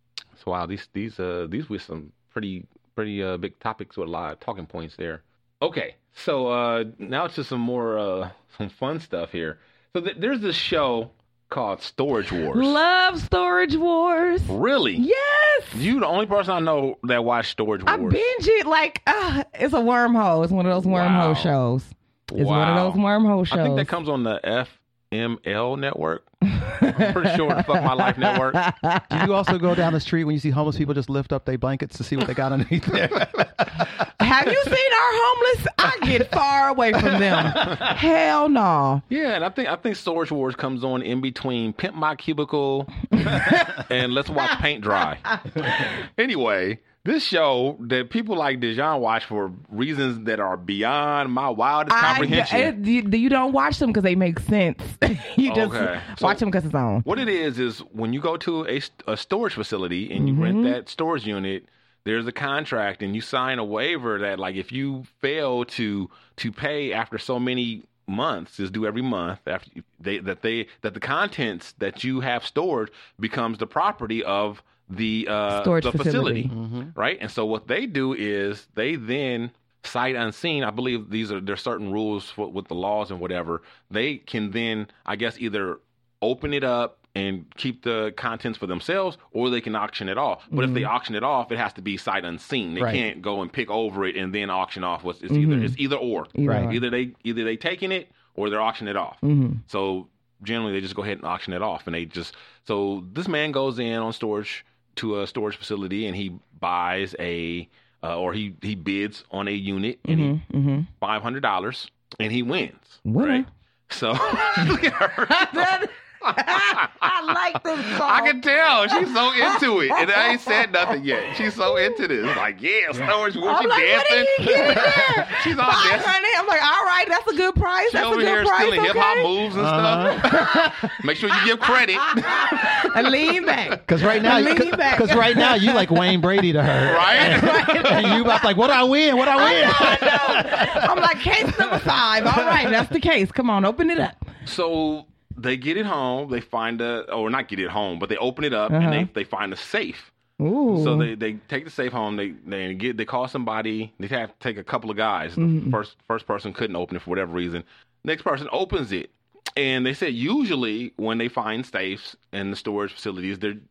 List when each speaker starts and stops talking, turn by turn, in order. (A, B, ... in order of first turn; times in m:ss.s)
0:00.4-0:12.8 A
0:12.5-0:15.9 B
0:14.5-0:15.0 A
0:15.7-0:18.2 A
0:17.9-0:23.9 B
0:20.7-0:21.6 A
0:22.3-0:26.3 A
0:26.6-0:29.0 B
0:26.9-0:28.6 A
0:29.1-0:34.0 C
0:34.2-0:39.0 B
0:37.0-0:37.8 C
0:39.1-0:52.7 A
0:43.2-0:43.8 B
0:45.3-0:45.8 B
0:51.9-0:57.0 B
0:55.4-0:56.4 A
0:57.0-1:50.4 A
1:00.2-1:00.8 B
1:15.5-1:16.5 B
1:16.5-1:16.9 C
1:30.5-1:30.9 B
1:32.8-1:33.0 C
1:35.3-1:35.8 B
1:36.3-1:36.8 B
1:36.4-1:36.8 C
1:39.2-1:39.6 B
1:50.0-1:50.9 B
1:51.0-2:06.2 A
1:53.0-1:53.4 B
1:54.3-1:54.6 B
1:55.3-1:58.4 B
1:58.9-2:01.0 B
2:01.6-2:02.0 B
2:03.4-2:09.3 B
2:07.9-2:12.9 A
2:09.5-2:10.6 C
2:10.0-2:11.0 B
2:12.2-2:18.5 B
2:13.9-2:20.9 C
2:16.8-2:18.2 A
2:19.3-2:24.2 B
2:19.5-2:20.1 A
2:22.2-2:22.7 C
2:24.4-2:30.1 A
2:28.7-2:29.1 B
2:30.4-2:31.1 B
2:30.7-2:43.6 A
2:35.4-2:35.8 B